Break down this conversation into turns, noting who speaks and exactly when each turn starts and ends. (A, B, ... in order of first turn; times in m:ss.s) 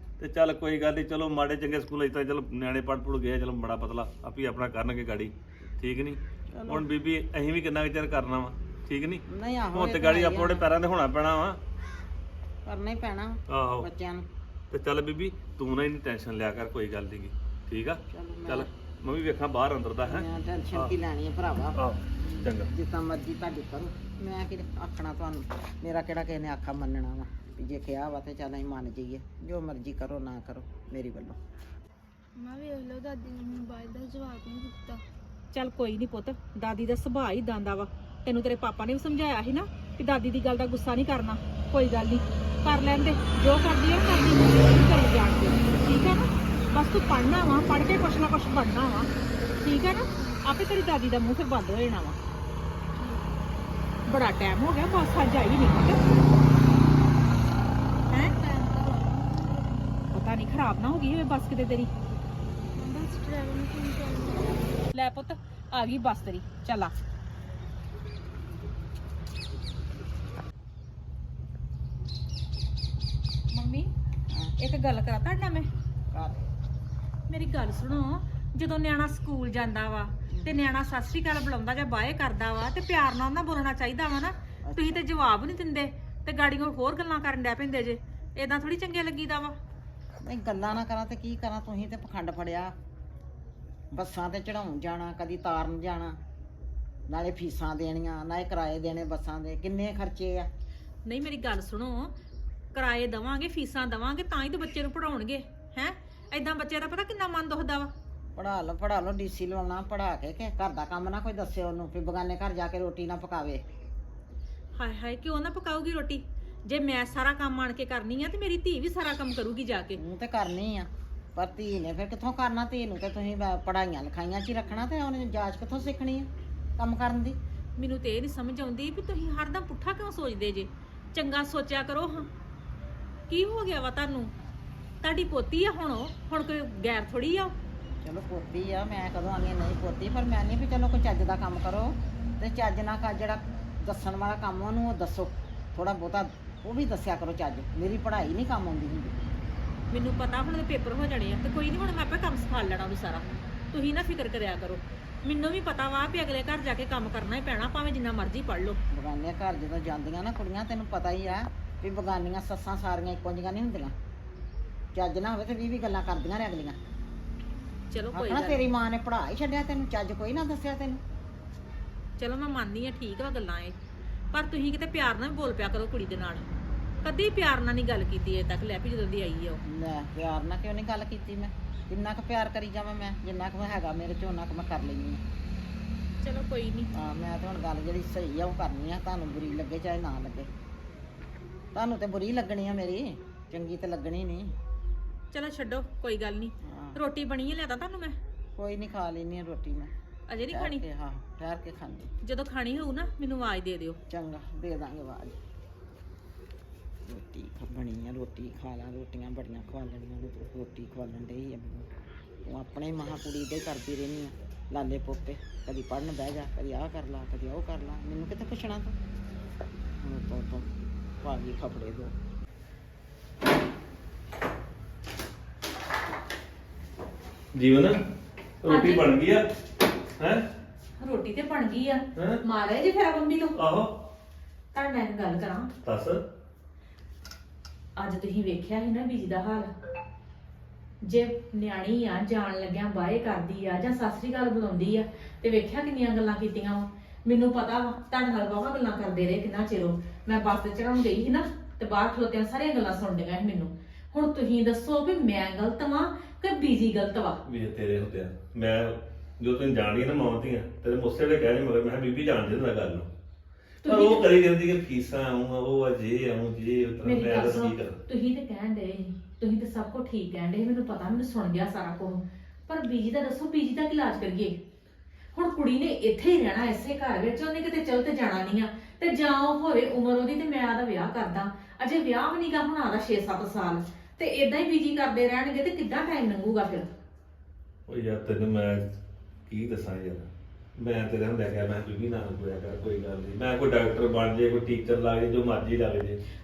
0:00.2-0:09.2 A
0:06.5-0:06.9 B
0:09.3-0:10.6 B
0:09.7-0:11.6 A
0:12.6-0:14.2 B
0:13.5-0:13.9 A
0:14.7-0:20.9 A
0:18.1-0:18.7 B
0:20.0-0:21.8 B
0:21.7-0:22.7 A
0:22.7-0:31.4 B
0:32.4-0:35.0 C
0:35.5-0:49.1 D
0:49.6-0:52.2 D
0:50.2-0:50.4 C
0:53.0-0:53.3 C
0:54.1-0:56.1 D
0:58.1-1:00.1 C
0:58.1-0:58.4 D
1:00.1-1:01.9 D
1:02.7-1:04.8 C
1:04.9-1:06.9 D
1:13.5-1:13.9 D
1:14.3-1:14.5 B
1:14.6-1:15.7 D
1:16.1-1:16.5 B
1:17.3-1:29.5 D
1:20.3-1:20.5 B
1:24.6-1:25.0 B
1:30.2-1:32.7 B
1:33.9-1:36.2 B
1:37.1-1:40.5 B
1:41.0-1:42.1 D
1:42.7-1:47.9 D
1:48.4-1:53.6 B
1:54.8-2:00.0 D
2:00.0-2:07.4 B
2:07.8-2:12.3 D
2:13.3-2:14.3 D
2:15.0-2:17.5 D
2:18.0-2:29.3 B
2:29.9-2:38.8 D
2:38.9-2:43.9 B
2:44.9-2:46.8 B
2:47.9-2:48.6 D
2:48.1-2:51.0 B
2:52.2-2:53.7 D
2:54.3-2:56.4 D
2:57.0-2:59.6 D
2:59.6-3:05.2 B
3:06.2-3:06.9 D
3:06.9-3:10.5 B
3:11.7-3:14.5 B
3:15.3-3:18.1 D
3:16.6-3:17.0 B
3:18.6-3:19.9 B
3:20.3-3:20.8 D
3:20.5-3:22.1 B
3:22.2-3:24.0 D
3:24.1-3:25.4 B
3:27.0-3:31.9 B
3:32.4-3:38.9 B
3:40.0-3:40.7 B
3:41.2-3:42.1 B
3:47.5-3:48.0 A
3:48.6-3:49.4 A
3:48.6-3:49.2 D
3:50.2-3:50.4 A
3:51.0-3:53.6 D
3:52.2-3:52.4 A
3:53.5-3:54.0 A
3:54.7-3:55.7 D
3:55.8-3:56.2 A
3:58.0-3:59.7 D
4:01.0-4:17.4 D
4:17.4-4:23.1 A
4:23.8-4:24.3 D
4:23.8-4:28.0 A
4:27.0-4:34.5 D
4:35.3-4:46.9 D
4:47.9-4:48.8 A
4:49.5-4:56.2 A